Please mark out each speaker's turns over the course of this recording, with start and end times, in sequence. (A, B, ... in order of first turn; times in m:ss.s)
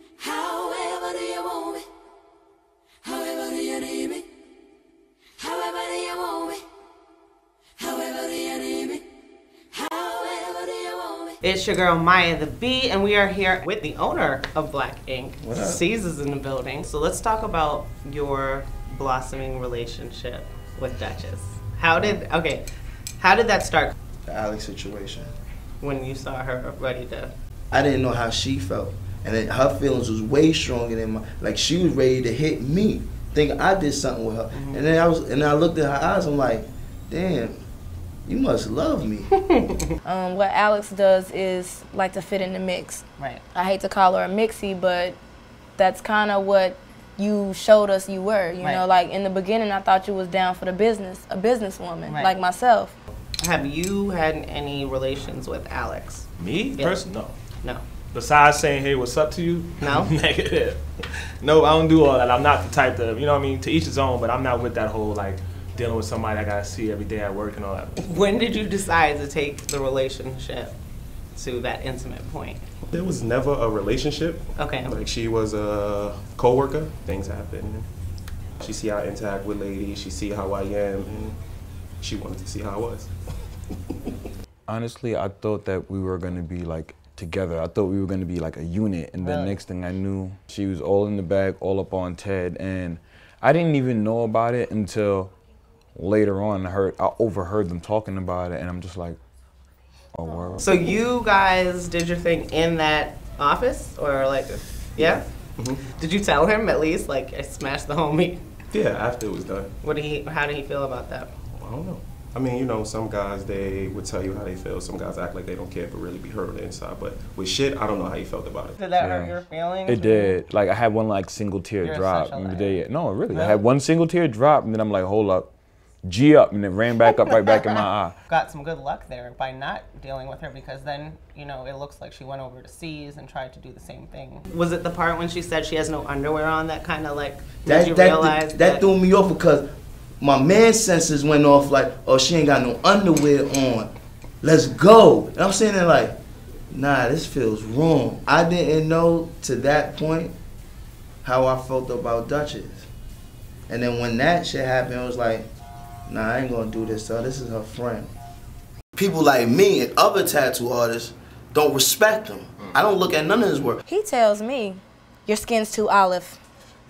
0:00.2-0:01.8 A
0:03.0-0:04.2 A
0:05.4-0:06.6 A
0:07.8-0:09.0 A
0:09.8-0:11.3 A
0:11.4-0:22.6 B
0:15.4-0:15.8 C
0:23.2-0:23.9 B
0:24.3-0:25.3 C
0:25.8-0:27.3 B
0:27.7-0:37.6 C
0:34.5-0:34.9 B
0:38.3-0:39.3 C
0:39.3-0:39.9 B
0:40.0-0:45.2 D
0:43.2-0:43.4 B
0:45.8-0:53.0 D
0:52.1-0:52.4 B
0:53.4-0:57.0 B
0:56.4-0:57.4 A
0:58.1-1:00.8 A
0:59.8-1:00.1 B
1:01.4-1:08.0 A
1:08.0-1:10.7 B
1:11.3-1:12.6 B
1:12.9-1:17.9 E
1:14.6-1:14.9 B
1:18.6-1:21.4 E
1:22.0-1:23.1 E
1:24.7-1:35.3 F
1:29.2-1:29.5 B
1:36.0-1:39.2 F
1:40.1-1:40.9 F
1:40.6-1:45.3 B
1:45.0-1:45.8 E
1:45.9-1:48.4 B
1:48.7-1:49.7 E
1:49.8-1:51.3 B
1:51.5-1:58.7 E
1:58.8-2:00.4 B
1:59.0-2:05.5 F
2:01.8-2:03.6 B
2:06.0-2:08.1 F
2:07.3-2:18.8 B
2:17.7-2:19.7 C
2:20.2-2:23.9 C
2:24.4-2:26.2 C
2:26.7-2:30.3 C
2:31.2-2:32.9 C
2:33.7-2:35.5 C
2:36.1-2:38.1 C
2:39.0-2:43.8 C
2:43.9-2:46.4 D